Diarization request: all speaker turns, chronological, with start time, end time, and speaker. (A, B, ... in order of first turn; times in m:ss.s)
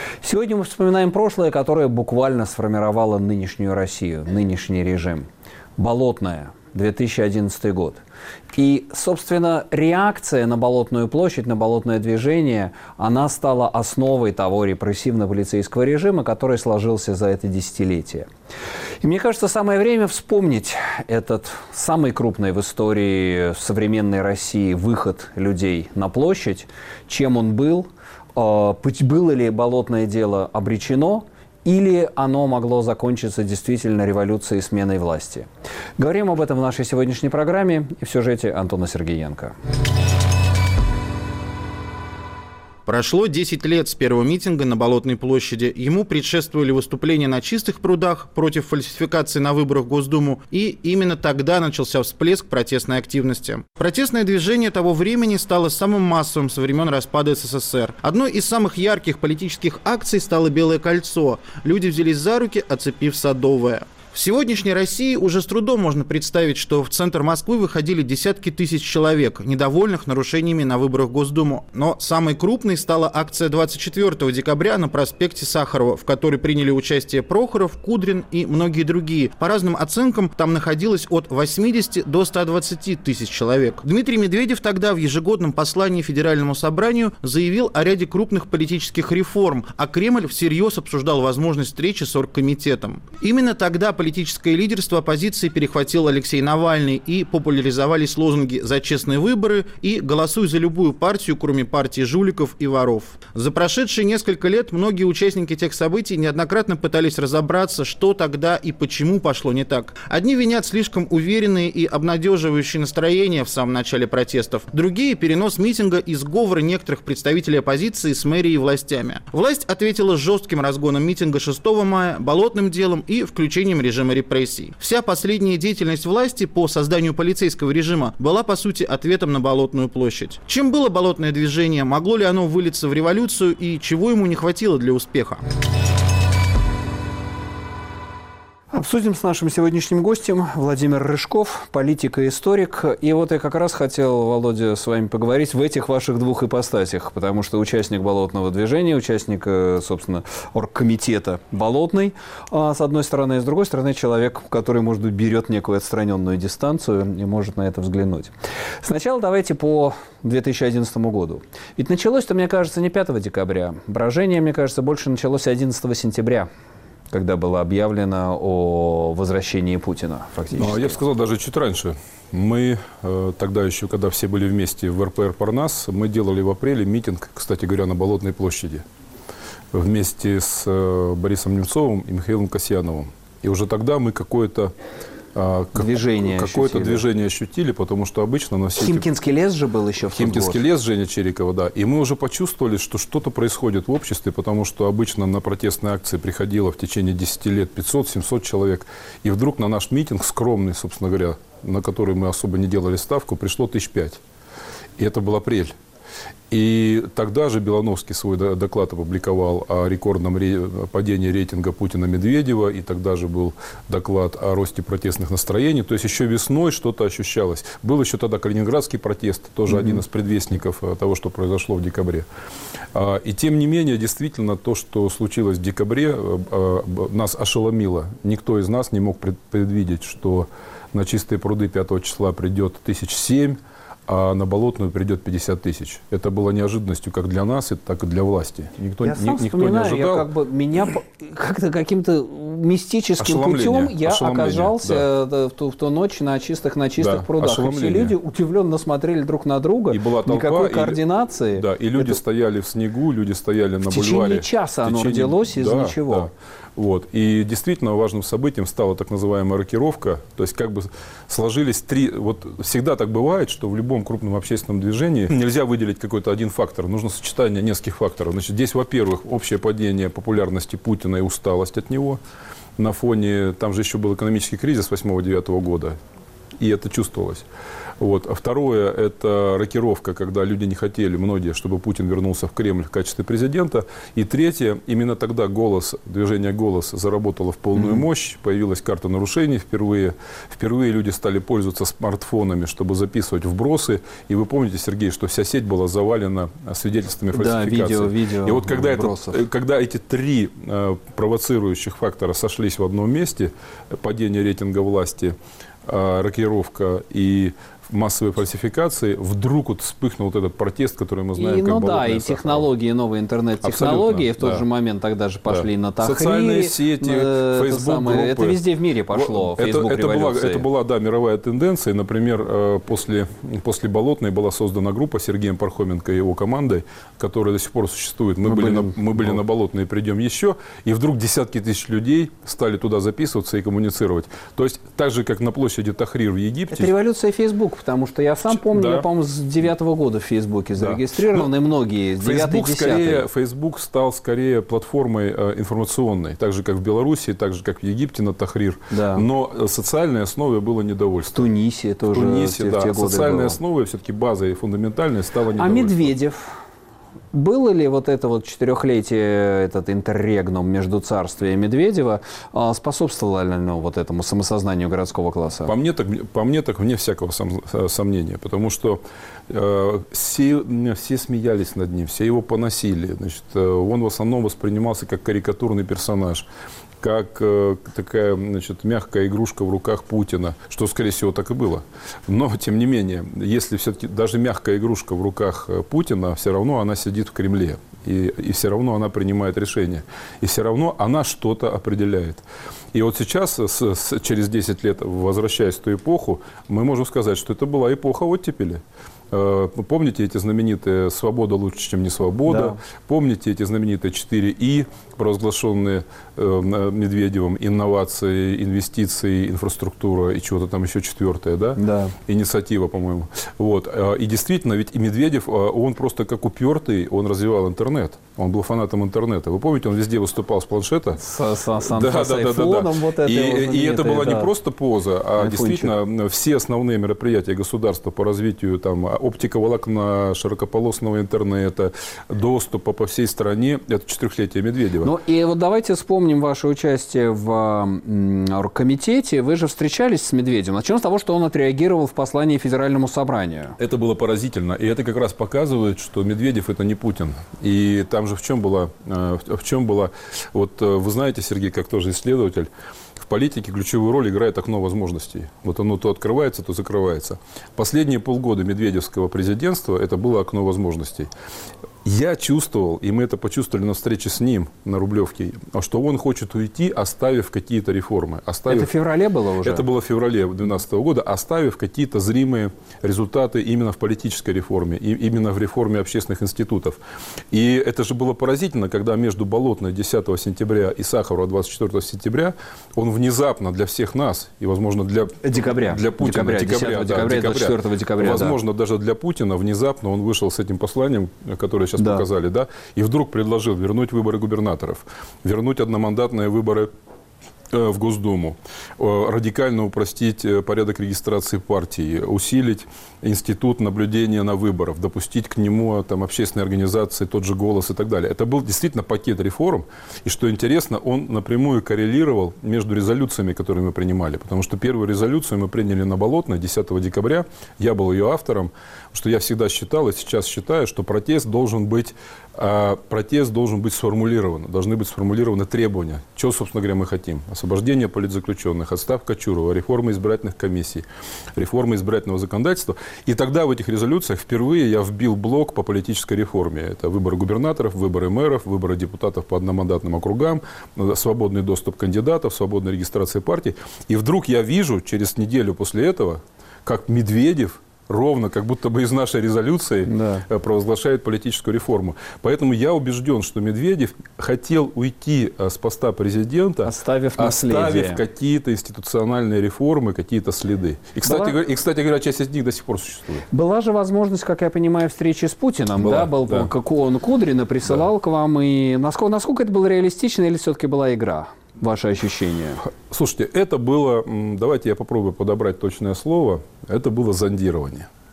0:00.2-0:18.3 A
0:19.0-0:35.5 A
0:36.0-0:39.5 A
0:42.8-2:15.4 B
2:18.7-2:46.5 A
2:47.1-2:51.0 A
2:50.5-2:58.8 C
2:59.7-3:04.7 C
3:05.3-3:09.0 C
3:05.7-3:07.0 A
3:08.8-3:10.6 A
3:10.0-3:24.2 C
3:25.0-3:25.7 C
3:26.5-3:42.3 C
3:39.7-3:40.0 A
3:42.9-4:00.3 C
3:59.0-4:12.2 A
4:03.2-4:05.0 C
4:07.0-4:08.1 C
4:09.9-4:11.0 C
4:11.5-4:32.2 C
4:13.9-4:16.3 A
4:32.8-4:36.0 C
4:36.6-4:37.4 C
4:38.0-5:12.7 C
4:47.8-4:48.0 A
4:57.3-4:59.4 A
5:11.4-5:20.6 A
5:13.6-5:14.6 C
5:15.5-5:36.9 C
5:28.5-5:29.0 A
5:36.7-5:43.2 A
5:38.5-5:39.0 C
5:40.8-5:41.5 C
5:42.2-5:51.5 C
5:48.9-5:49.3 A
5:51.3-5:53.6 A
5:52.1-5:56.1 C
5:55.6-5:56.5 A
5:57.3-6:05.7 A
6:05.6-6:16.4 C
6:17.0-7:01.2 C
6:42.5-6:42.8 A
6:51.8-6:52.1 A
7:01.2-7:04.5 A
7:01.8-7:15.1 C
7:05.4-7:05.9 A
7:15.0-7:23.8 A
7:23.8-7:41.3 C
7:42.0-7:48.9 C
7:48.7-7:49.8 A
7:49.6-7:57.0 C
7:57.5-8:16.9 C
8:05.4-8:08.6 A
8:12.0-8:12.2 A
8:17.7-8:51.0 C
8:51.6-9:23.4 C
9:10.1-9:10.4 A
9:16.8-9:18.2 A
9:21.2-9:21.5 A
9:23.5-9:32.8 A
9:26.0-9:26.7 C
9:32.8-9:38.1 C